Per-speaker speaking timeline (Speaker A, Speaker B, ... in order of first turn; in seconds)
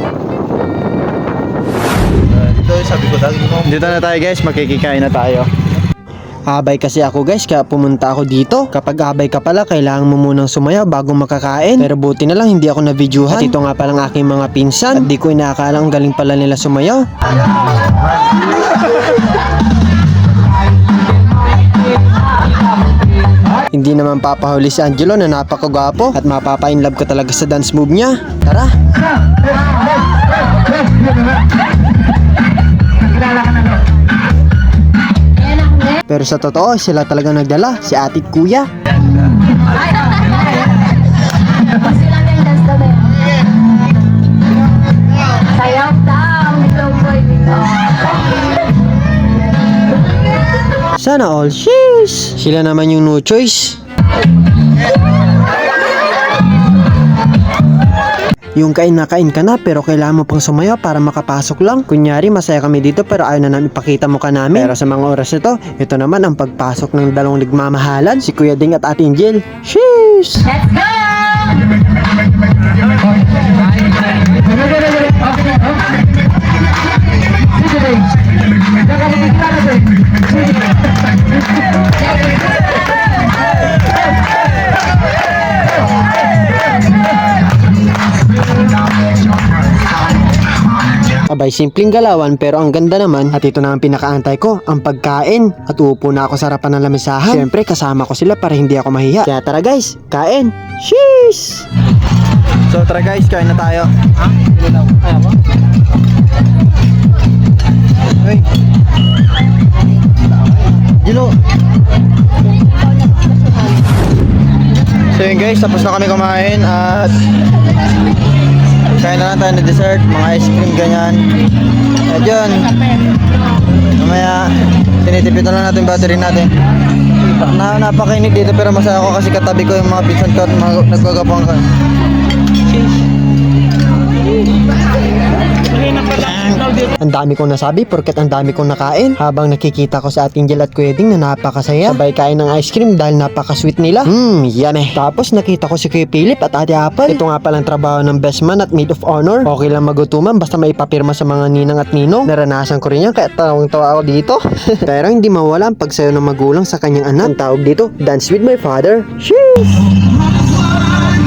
Speaker A: 2.3-5.5, 102.7-103.9, 111.0-111.4, 115.1-117.2, 119.0-121.3, 122.0-122.7, 123.9-126.5, 127.4-131.7, 136.1-136.6
Speaker B: 6.5-17.1, 23.7-28.7, 36.1-38.7, 51.0-53.8, 58.5-70.7, 91.1-101.7, 137.0-159.9
Speaker C: 35.5-36.0, 39.8-40.7, 41.7-43.2, 45.4-48.1, 70.8-71.5